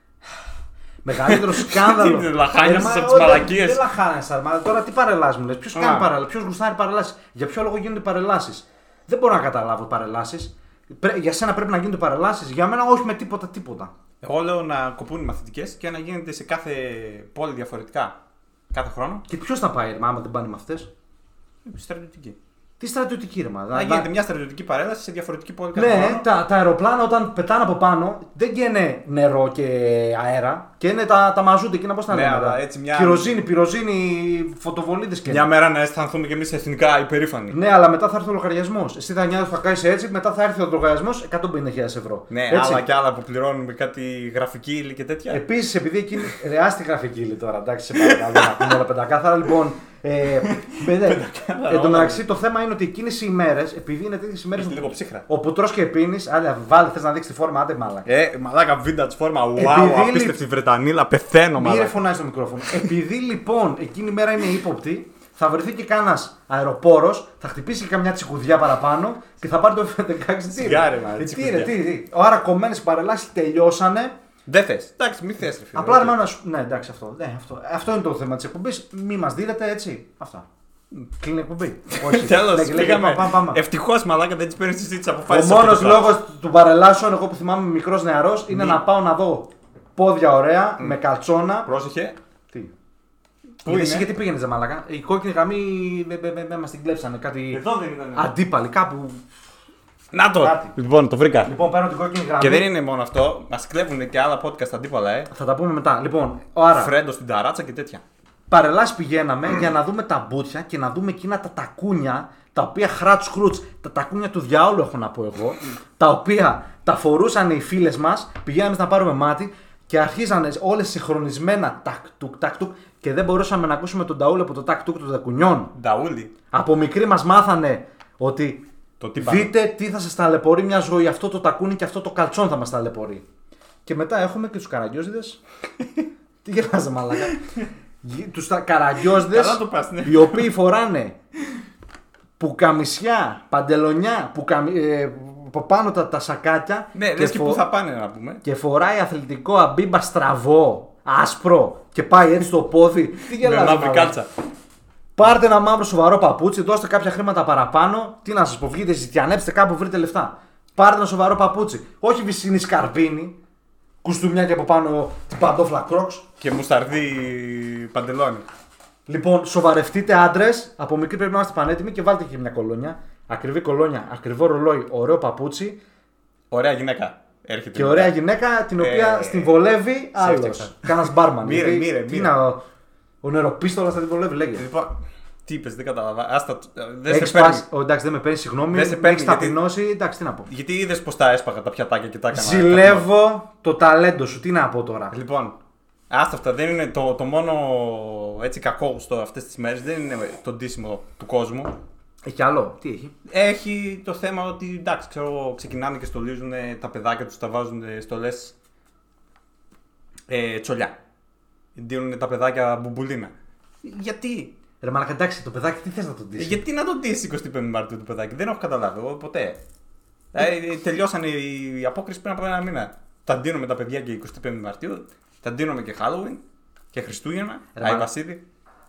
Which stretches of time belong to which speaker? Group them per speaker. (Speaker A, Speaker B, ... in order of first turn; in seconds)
Speaker A: 1.0-13.9, 19.3-20.9, 22.8-24.1, 25.7-35.5, 37.5-42.8, 45.3-58.1, 59.5-60.4, 61.6-74.1, 75.7-80.5, 81.2-83.6, 85.3-91.7, 93.7-97.6, 98.2-99.2, 100.4-100.7, 101.5-102.6, 105.3-106.9, 108.5-125.7, 126.5-133.2, 133.8-135.4, 136.4-137.4, 138.0-141.2, 142.4-147.6, 148.4-154.1, 155.2-163.4, 164.0-166.2, 169.1-175.8, 177.7-182.6, 183.2-184.6, 187.1-190.5, 192.3-195.1, 202.2-203.1, 214.8-216.6, 227.7-228.1
Speaker B: 1.3-3.8, 5.7-6.1, 14.2-18.1, 18.7-19.2, 21.6-22.4, 23.7-26.2, 32.1-33.4, 35.3-37.5, 42.3-45.4, 48.0-48.8, 50.5-52.2, 54.5-55.2, 58.0-61.9, 70.6-71.7, 74.5-76.2, 81.9-86.1, 88.5-88.8, 91.6-92.2, 93.6-94.1, 97.5-98.3, 100.1-101.5, 102.4-105.3, 106.7-108.0, 125.7-126.3, 129.0-129.5, 139.1-140.5, 146.9-148.4, 153.3-154.3, 166.4-168.4, 176.5-178.1, 178.8-179.5, 180.2-182.3, 184.6-187.6, 188.7-189.6, 190.5-193.1, 195.1-195.6, 196.1-201.7, 203.3-208.5, 210.3-210.9, 211.7-213.3, 213.8-214.5, 216.4-219.6, 220.3-226.4, 226.9-228.4